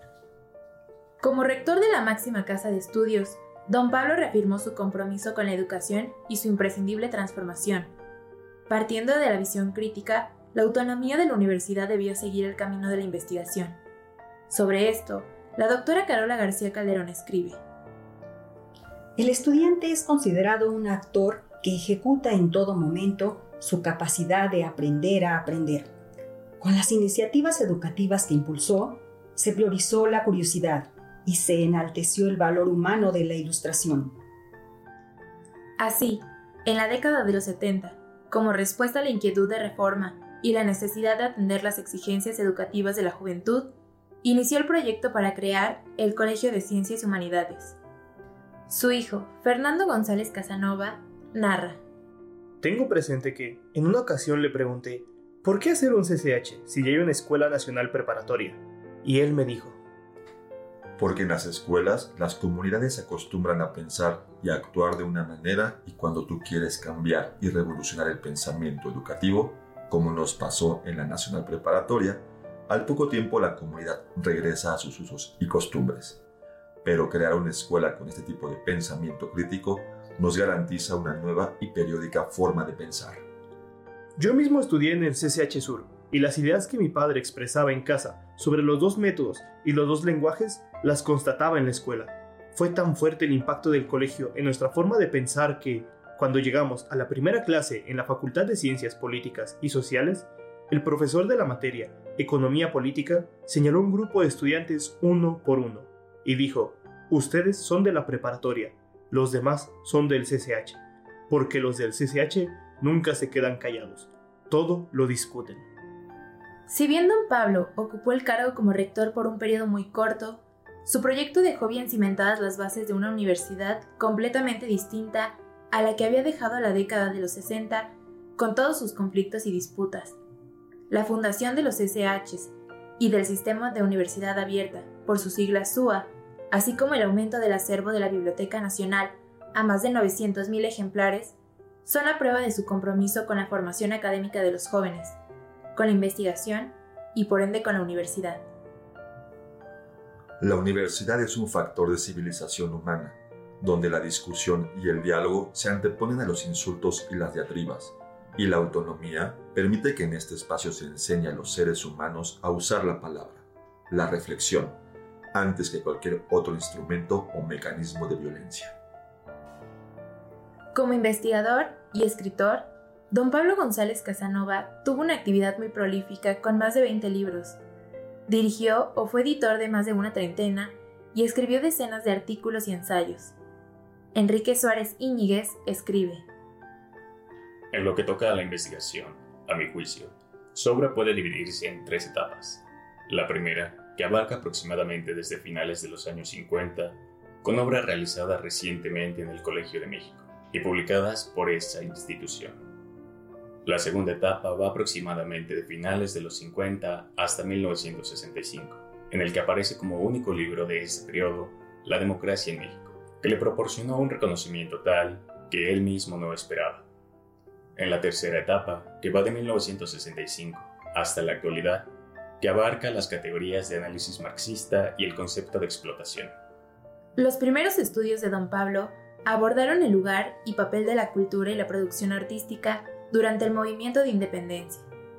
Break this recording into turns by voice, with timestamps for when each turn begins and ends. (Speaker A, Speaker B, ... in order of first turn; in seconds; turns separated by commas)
Speaker A: 1.2-7.9, Speaker A: 8.7-13.8, Speaker A: 14.5-17.6, Speaker B: 19.2-25.9, Speaker B: 26.6-34.1, Speaker A: 35.8-43.7, Speaker A: 44.2-47.8, Speaker A: 48.7-51.8, Speaker C: 52.6-59.8, Speaker D: 61.0-76.2, Speaker D: 76.8-83.2, Speaker C: 84.2-115.7, Speaker A: 116.7-130.2, Speaker A: 130.9-145.2, Speaker A: 145.7-148.4, Speaker D: 150.4-164.8, Speaker D: 165.3-168.8, Speaker A: 170.7-177.6, Speaker A: 178.3-183.3, Speaker A: 184.1-186.2, Speaker E: 187.7-202.6, Speaker E: 203.6-216.8, Speaker E: 217.8-221.9, Speaker E: 222.4-226.3, Speaker A: 227.2-234.9